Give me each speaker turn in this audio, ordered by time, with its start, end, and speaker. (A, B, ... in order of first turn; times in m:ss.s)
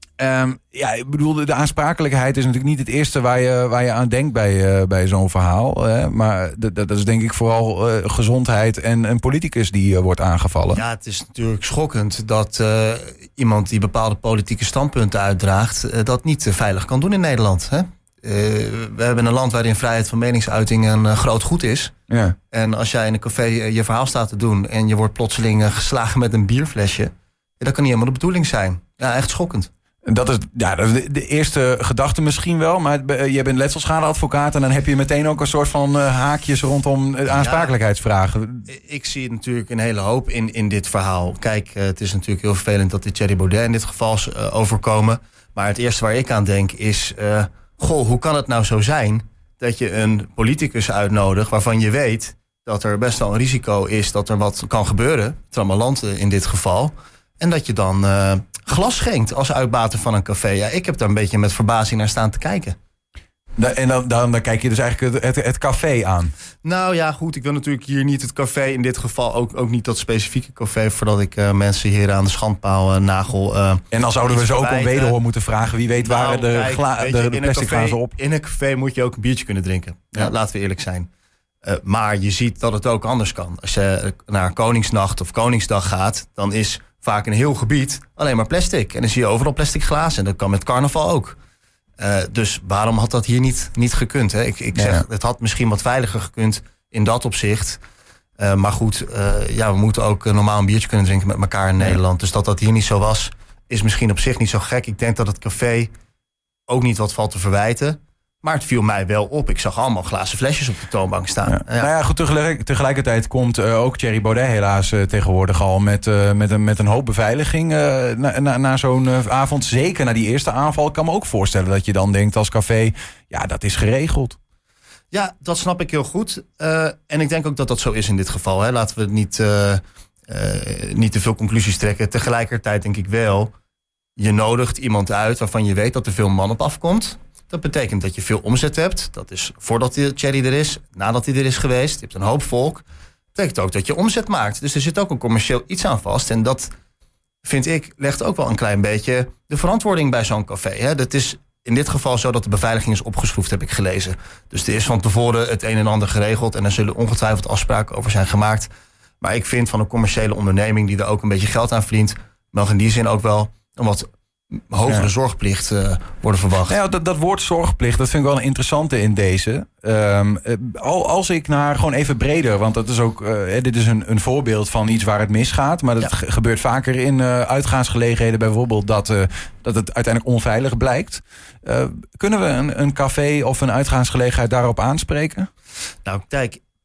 0:00.2-0:10.8 A
0:10.7-0:21.9 B
0:22.1-0:22.4 A
0:22.5-0:29.7 B
0:30.1-0:38.7 A
0:37.3-0:37.8 B
0:38.7-1:02.8 B
1:03.6-1:06.3 A
1:06.6-1:15.2 B
1:13.9-1:18.1 A
1:16.0-1:21.1 B
1:21.6-1:31.4 B
1:32.0-1:37.8 B
1:34.8-1:35.0 A
1:38.4-1:45.9 B
1:46.7-1:51.9 B
1:51.5-2:04.4 A
2:05.1-2:13.5 B
2:14.2-2:26.7 B
2:27.4-2:38.7 B
2:39.2-2:46.8 B
2:46.7-3:05.5 A
3:06.0-3:06.6 B